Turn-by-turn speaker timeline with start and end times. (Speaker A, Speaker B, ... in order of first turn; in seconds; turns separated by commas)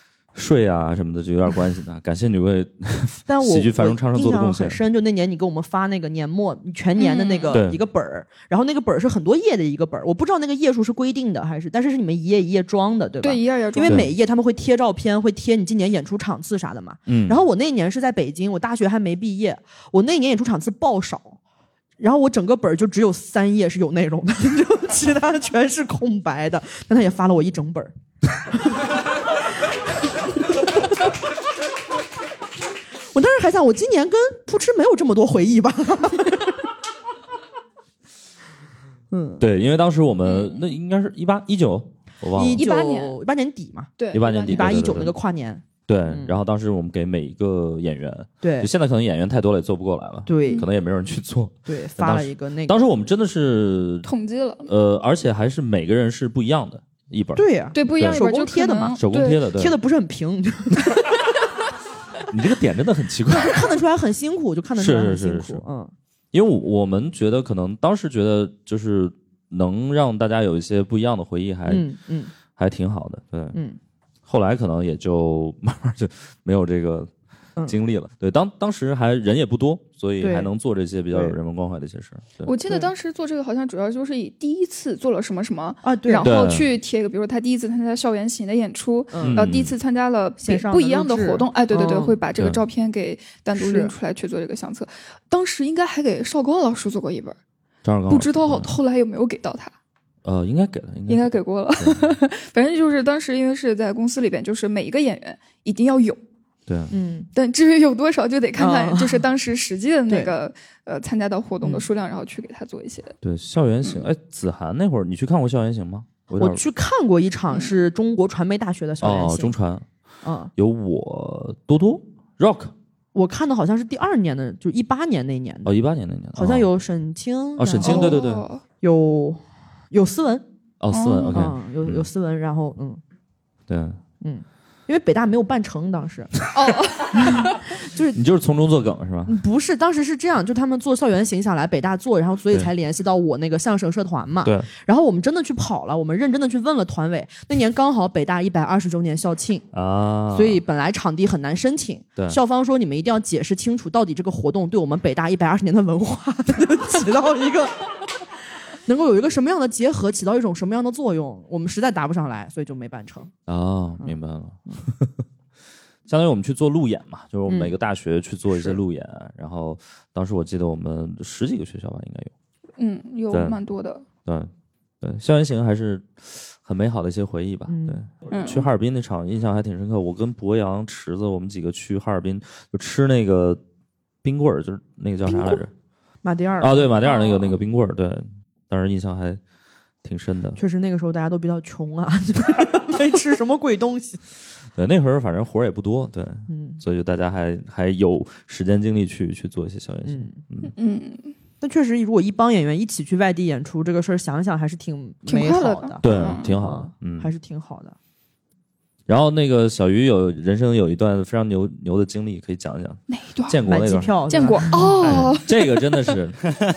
Speaker A: 0.3-4.8, Speaker B: 3.3-21.4, Speaker C: 7.0-7.6, Speaker A: 7.5-7.8, Speaker C: 13.2-14.0, Speaker A: 13.8-14.1, Speaker A: 17.1-17.4, Speaker B: 22.0-27.9, Speaker B: 28.5-28.9, Speaker B: 33.1-36.6, Speaker B: 39.1-39.4, Speaker A: 39.4-42.6, Speaker C: 40.2-40.6, Speaker B: 42.4-43.9, Speaker C: 42.6-43.2, Speaker C: 44.0-44.7, Speaker A: 44.1-45.1, Speaker B: 44.5-46.4, Speaker A: 45.9-54.1, Speaker B: 48.4-48.7, Speaker B: 50.3-50.7, Speaker B: 51.7-52.8, Speaker C: 54.0-54.7, Speaker A: 54.7-58.2, Speaker B: 57.4-61.2, Speaker C: 57.7-59.5, Speaker A: 59.0-59.8, Speaker A: 62.3-63.7, Speaker B: 63.3-65.9, Speaker A: 64.8-65.6, Speaker A: 66.3-71.9, Speaker B: 71.7-72.3, Speaker A: 72.5-73.6, Speaker B: 73.5-73.8, Speaker A: 74.3-77.1, Speaker A: 77.7-82.6, Speaker B: 80.2-80.5, Speaker C: 82.5-97.4, Speaker B: 85.8-86.3, Speaker A: 86.2-86.7, Speaker B: 89.1-89.5, Speaker A: 89.2-89.8, Speaker B: 90.4-92.2, Speaker B: 93.5-93.9, Speaker A: 97.8-98.8, Speaker C: 98.1-99.7, Speaker A: 100.2-102.1, Speaker C: 101.1-106.2, Speaker A: 106.7-106.9, Speaker B: 106.9-107.3, Speaker C: 107.3-113.1, Speaker B: 108.6-109.2, Speaker B: 110.1-110.3, Speaker A: 113.2-116.6, Speaker B: 116.3-119.5, Speaker A: 119.0-119.8, Speaker B: 120.2-120.5, Speaker A: 120.6-122.7, Speaker B: 123.2-125.7, Speaker A: 125.7-126.7, Speaker B: 126.3-128.2, Speaker A: 127.6-128.4, Speaker C: 127.8-128.6, Speaker B: 128.8-130.4, Speaker A: 130.8-132.1, Speaker C: 130.9-131.5, Speaker B: 131.3-133.0, Speaker A: 133.7-134.0, Speaker B: 134.2-136.3, Speaker C: 136.5-137.7, Speaker B: 137.1-138.2, Speaker A: 138.1-139.4, Speaker B: 139.3-149.7, Speaker A: 149.7-150.6, Speaker B: 150.3-157.8, Speaker B: 158.9-163.3, Speaker A: 163.5-165.1, Speaker A: 166.1-172.3, Speaker B: 167.5-167.8, Speaker B: 168.5-168.8, Speaker C: 172.8-174.1, Speaker A: 173.3-173.6, Speaker A: 174.2-174.5, Speaker A: 175.0-183.6, Speaker B: 177.7-178.0, Speaker C: 178.3-178.7, Speaker A: 184.2-185.7, Speaker B: 185.3-185.6, Speaker B: 186.2-187.0, Speaker A: 186.6-189.4, Speaker C: 187.2-187.5, Speaker A: 190.0-190.6, Speaker B: 190.6-194.2, Speaker A: 194.8-200.7, Speaker B: 196.5-196.8, Speaker B: 200.1-200.4, Speaker C: 200.8-201.3, Speaker B: 201.6-208.0, Speaker C: 205.3-206.6, Speaker A: 206.0-207.3, Speaker A: 209.1-216.5, Speaker C: 213.1-213.6, Speaker B: 213.7-214.9, Speaker C: 214.3-216.1